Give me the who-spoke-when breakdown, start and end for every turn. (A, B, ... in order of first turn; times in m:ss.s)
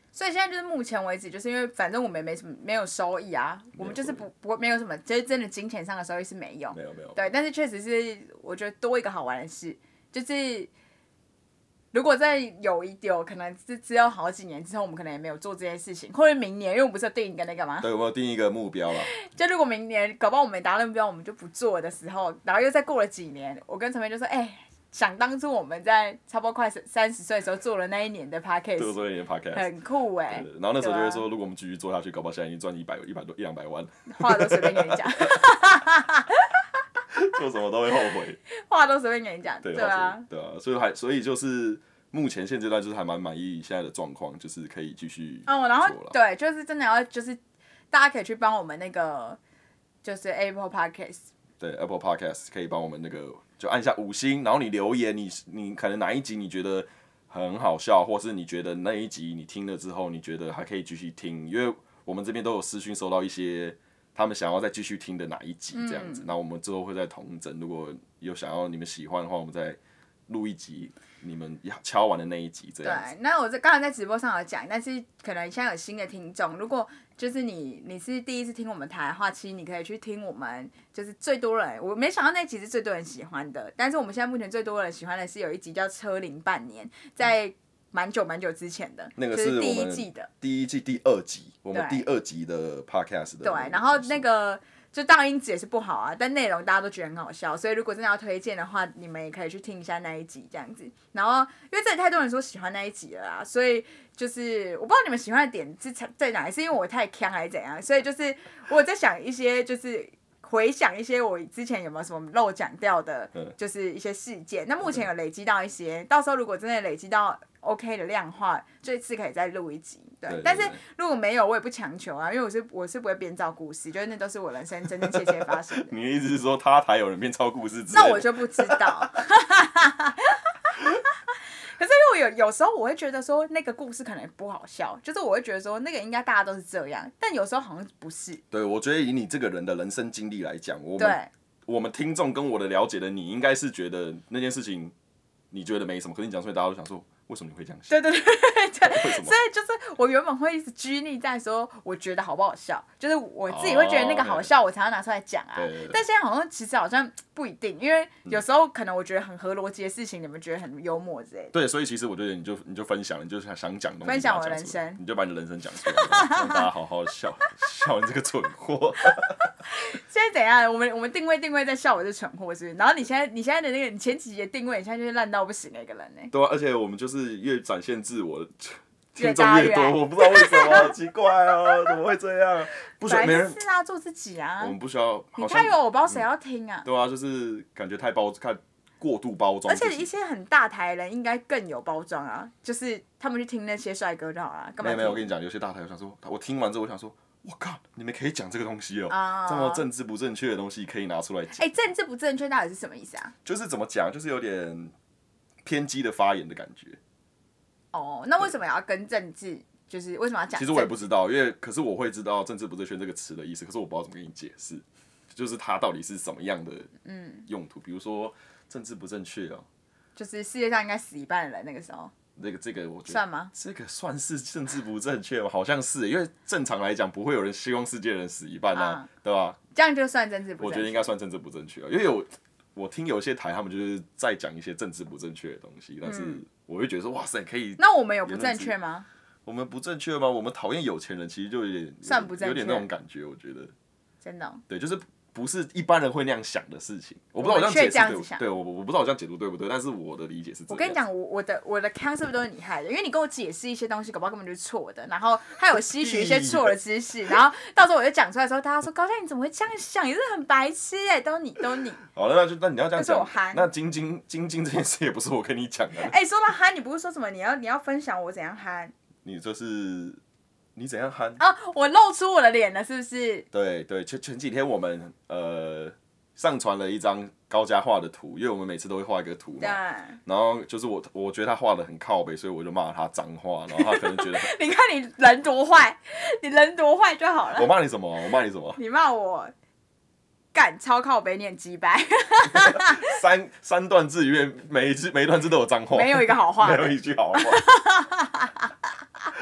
0:00.1-0:10.7 A
0:03.8-0:04.2 B
0:06.7-0:07.3 B
0:11.9-0:17.9 A
0:17.8-0:19.1 B
0:19.1-0:29.0 A
0:28.8-0:29.7 B
0:29.5-0:31.2 A
0:30.3-0:35.4 B
0:34.1-0:36.7 A
0:37.1-0:38.4 B
0:38.5-0:40.3 A
0:39.6-0:46.2 B
0:45.5-0:47.4 A
0:47.9-0:49.4 A
0:50.0-0:51.2 A
0:51.6-1:13.1 B
1:05.7-1:06.3 A
1:12.8-1:30.3 A
1:29.2-1:34.2 B
1:31.7-1:32.1 A
1:33.4-2:05.9 A
2:00.3-2:00.8 B
2:05.0-2:09.0 B
2:07.9-2:18.4 A
2:18.5-2:24.9 B
2:21.0-2:21.3 A
2:25.5-2:28.0 B
2:27.9-2:41.5 A
2:28.8-2:29.4 B
2:33.5-2:34.5 B
2:35.6-2:36.0 B
2:41.5-2:49.5 B
2:44.0-2:45.0 A
2:45.8-2:46.7 A
2:49.7-2:56.3 A
2:56.3-3:03.6 B
2:59.2-3:00.9 A
3:03.0-3:04.8 A
3:04.6-3:06.2 B
3:05.4-3:06.9 A
3:06.8-3:10.1 B
3:09.7-3:15.3 A
3:14.8-3:21.6 B
3:19.1-3:19.8 A
3:21.6-3:23.3 A
3:23.4-3:24.9 B
3:25.6-3:27.0 B
3:27.9-3:31.0 A
3:30.6-3:36.9 B
3:37.0-3:37.5 A
3:37.5-3:39.7 B
3:40.2-3:42.1 A
3:42.4-3:49.6 B
3:43.1-3:43.5 A
3:48.7-3:49.1 A
3:49.7-3:51.1 A
3:50.6-3:58.7 B
3:56.0-3:56.4 A
3:57.8-3:59.1 A
3:59.5-4:03.7 B
4:02.0-4:02.9 A
4:04.2-4:04.6 A
4:04.7-4:11.0 B
4:07.4-4:08.4 A
4:10.7-4:22.0 A
4:15.9-4:16.8 B
4:22.1-4:26.2 B
4:23.0-4:23.7 A
4:26.0-4:28.9 A
4:29.2-4:30.2 B
4:30.8-4:31.4 B
4:31.4-4:33.5 A
4:33.5-4:44.5 B
4:39.6-4:40.2 A
4:43.8-4:47.7 A
4:47.5-4:48.8 B
4:48.8-4:49.5 A
4:50.5-4:53.2 A
4:52.5-4:57.7 B
4:55.9-4:58.7 A